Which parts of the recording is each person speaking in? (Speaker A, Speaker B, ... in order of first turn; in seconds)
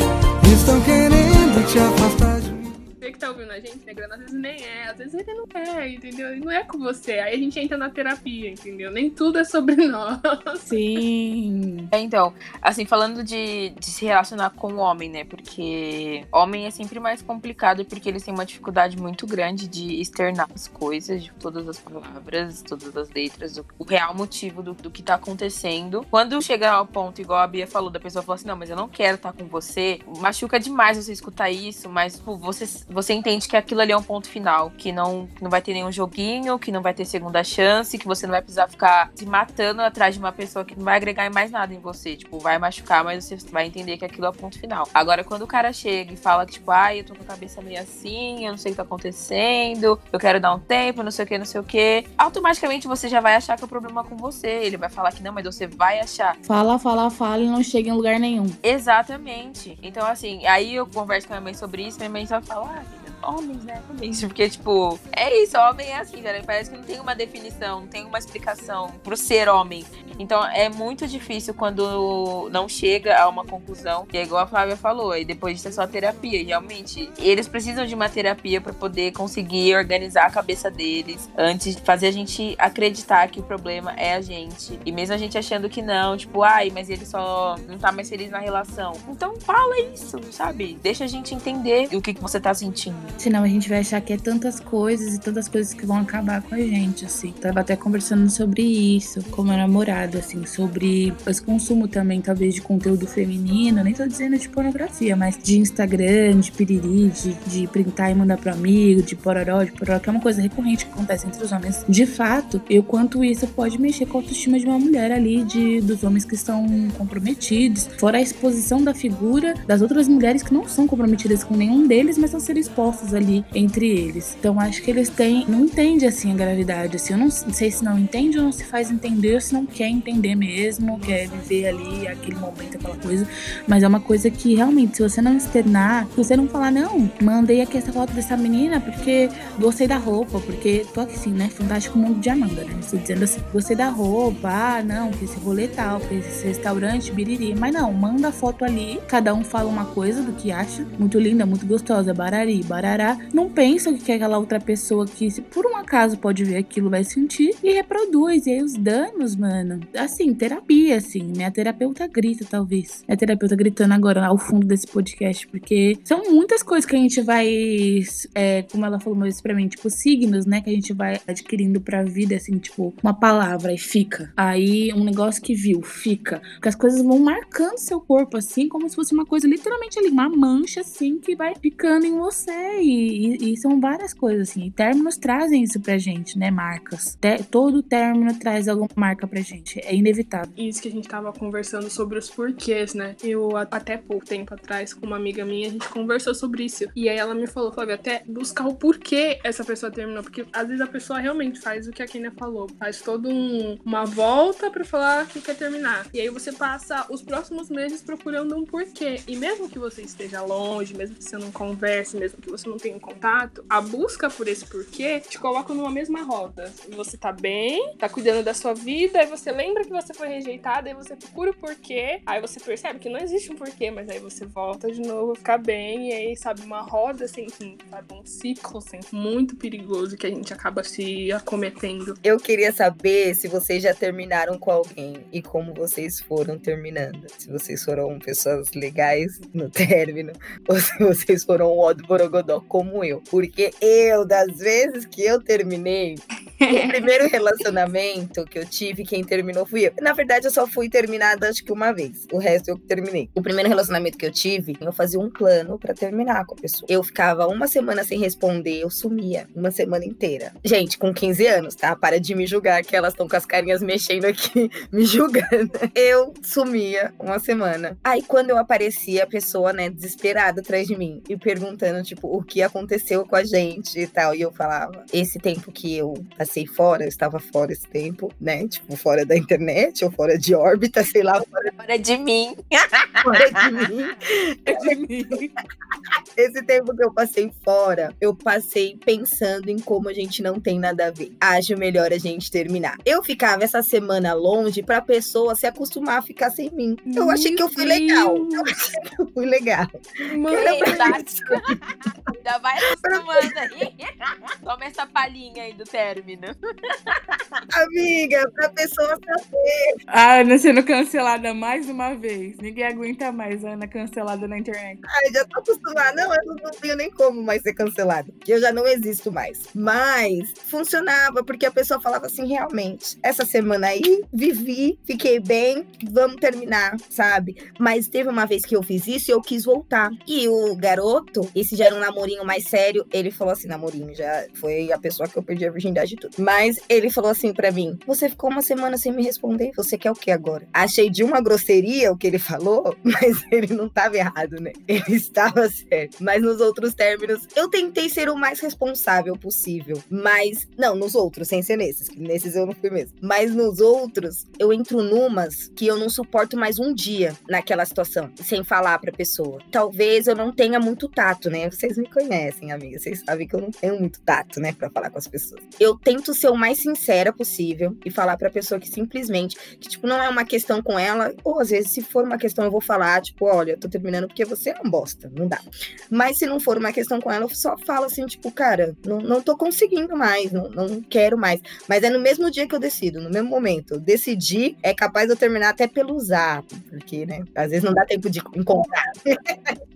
Speaker A: 0.4-2.8
Speaker B: 3.0-10.8, 190.6-232.2, 297.1-298.7, 300.2-301.5
Speaker C: 10.7-11.9, 56.4-58.6, 93.2-190.5, 284.7-285.5, 310.1-315.0
Speaker D: 11.9-56.4, 58.6-93.1, 281.8-283.7, 300.5-301.7, 302.4-307.4
Speaker E: 232.2-281.7, 283.2-285.0, 286.4-298.7, 299.2-301.7, 303.0-303.9, 307.7-309.9, 315.1-389.7